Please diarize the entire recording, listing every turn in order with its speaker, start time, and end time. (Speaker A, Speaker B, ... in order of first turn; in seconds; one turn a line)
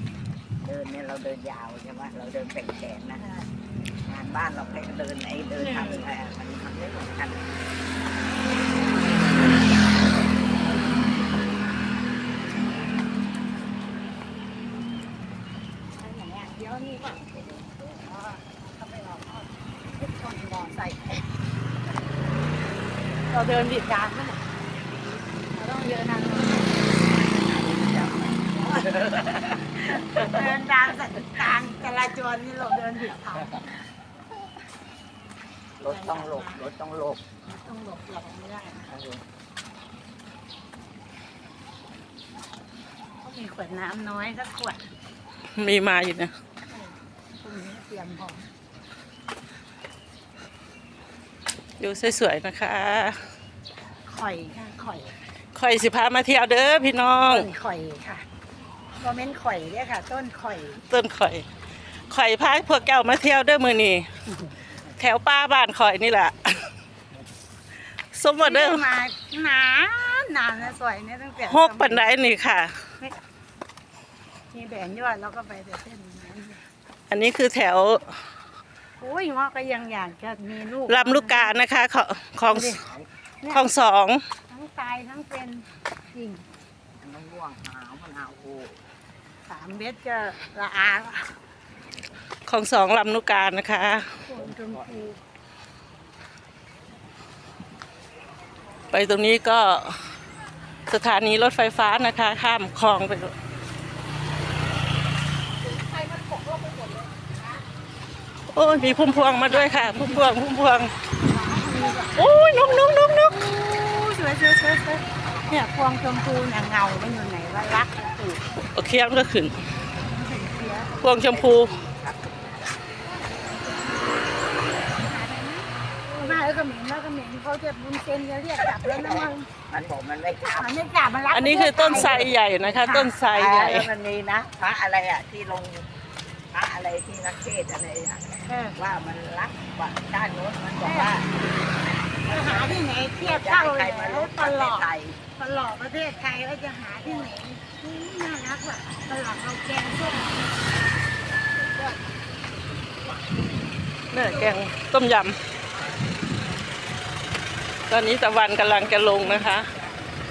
Speaker A: 0.6-3.2
Speaker B: 3.2-3.5
Speaker A: 4.0-7.5
Speaker B: 16.0-21.2
Speaker B: 23.3-24.4
Speaker B: 25.5-26.8
Speaker A: 27.0-30.4
Speaker B: 28.6-28.9
Speaker B: 29.8-33.5
Speaker A: 35.8-37.2
Speaker B: 35.9-36.6
Speaker B: 37.5-38.9
Speaker A: 38.9-39.2
Speaker B: 43.2-44.8
Speaker C: 45.6-46.3
Speaker B: 46.7-48.5
Speaker C: 51.8-53.2
Speaker B: 54.0-55.1
Speaker C: 55.5-57.5
Speaker B: 57.2-58.2
Speaker B: 59.0-60.8
Speaker C: 60.9-61.5
Speaker C: 62.1-64.0
Speaker C: 65.0-66.7
Speaker C: 68.1-68.8
Speaker B: 68.4-72.1
Speaker C: 71.4-72.7
Speaker B: 74.5-76.6
Speaker C: 77.1-78.1
Speaker B: 79.0-81.6
Speaker C: 80.9-82.8
Speaker B: 82.5-82.8
Speaker B: 83.4-83.7
Speaker C: 83.5-84.2
Speaker B: 84.5-86.4
Speaker A: 87.0-88.8
Speaker B: 89.5-91.3
Speaker C: 92.5-94.1
Speaker B: 94.3-95.2
Speaker A: 94.4-94.8
Speaker C: 98.9-100.0
Speaker C: 100.9-103.3
Speaker B: 105.8-107.4
Speaker C: 108.5-110.9
Speaker B: 109.1-110.3
Speaker B: 111.1-112.3
Speaker C: 112.2-113.3
Speaker B: 113.6-118.4
Speaker C: 118.8-119.5
Speaker B: 120.0-120.9
Speaker A: 120.9-122.8
Speaker C: 121.0-121.7
Speaker B: 123.0-124.2
Speaker B: 124.8-129.5
Speaker A: 128.9-130.7
Speaker B: 130.6-133.1
Speaker C: 131.3-133.9
Speaker A: 131.8-132.4
Speaker A: 133.3-135.9
Speaker A: 136.5-141.3
Speaker B: 138.5-138.8
Speaker B: 140.8-141.1
Speaker A: 142.2-145.2
Speaker B: 142.3-150.5
Speaker B: 151.5-152.0
Speaker C: 154.1-155.4
Speaker B: 154.1-154.6
Speaker C: 157.9-159.7